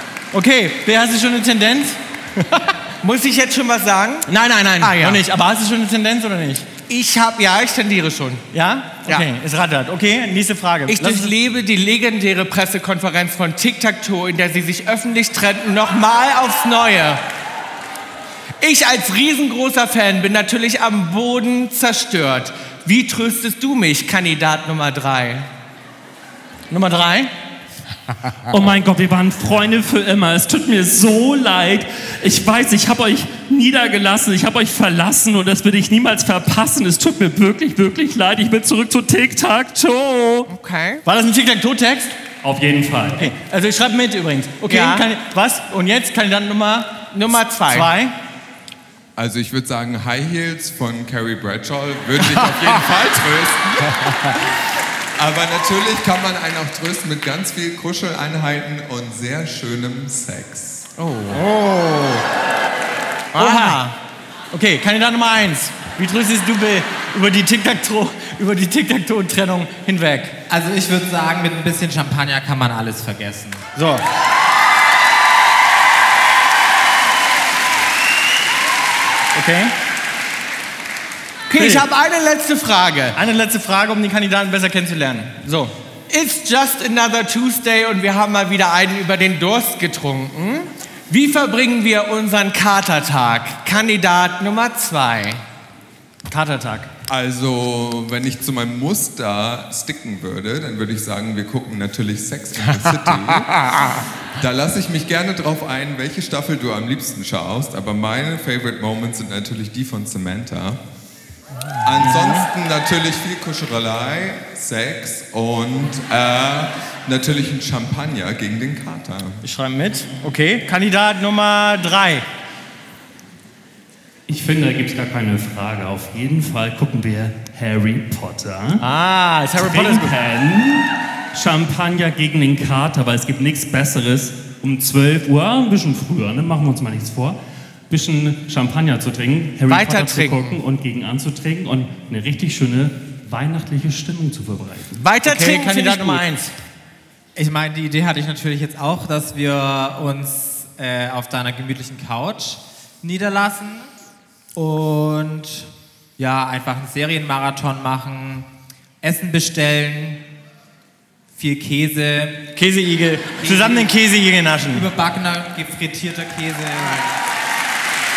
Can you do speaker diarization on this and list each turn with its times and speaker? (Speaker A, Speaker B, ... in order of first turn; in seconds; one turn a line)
Speaker A: 0.3-2.7
Speaker B: 3.0-4.3
Speaker A: 4.3-6.7
Speaker B: 4.8-5.2
Speaker B: 6.9-8.4
Speaker A: 8.5-11.3
Speaker B: 10.9-17.2
Speaker B: 18.6-25.5
Speaker A: 26.7-27.3
Speaker C: 28.5-40.5
Speaker B: 40.5-41.0
Speaker A: 41.0-42.2
Speaker C: 42.4-43.3
Speaker A: 43.1-48.1
Speaker B: 44.7-45.0
Speaker B: 47.1-47.9
Speaker D: 49.1-54.4
Speaker D: 55.2-60.9
Speaker B: 61.0-61.4
Speaker A: 61.3-62.2
Speaker B: 63.3-63.9
Speaker A: 63.4-63.9
Speaker A: 64.5-70.3
Speaker E: 70.5-73.6
Speaker A: 73.8-74.0
Speaker A: 79.3-79.7
Speaker B: 81.5-83.2
Speaker A: 81.5-81.8
Speaker A: 83.1-85.7
Speaker B: 86.1-95.4
Speaker A: 96.3-96.9
Speaker D: 97.1-103.8
Speaker B: 102.7-103.2
Speaker D: 104.4-110.8
Speaker D: 111.8-119.4
Speaker A: 111.8-112.5
Speaker A: 119.4-122.2
Speaker C: 124.3-128.8
Speaker A: 128.8-130.1
Speaker C: 129.6-137.4
Speaker C: 137.9-145.0
Speaker B: 139.7-140.6
Speaker B: 145.0-146.2
Speaker A: 145.2-146.5
Speaker E: 147.3-153.9
Speaker E: 154.5-155.7
Speaker E: 156.2-158.5
Speaker E: 159.0-160.2
Speaker E: 161.3-162.4
Speaker A: 162.5-164.9
Speaker E: 163.4-163.9
Speaker E: 164.6-167.1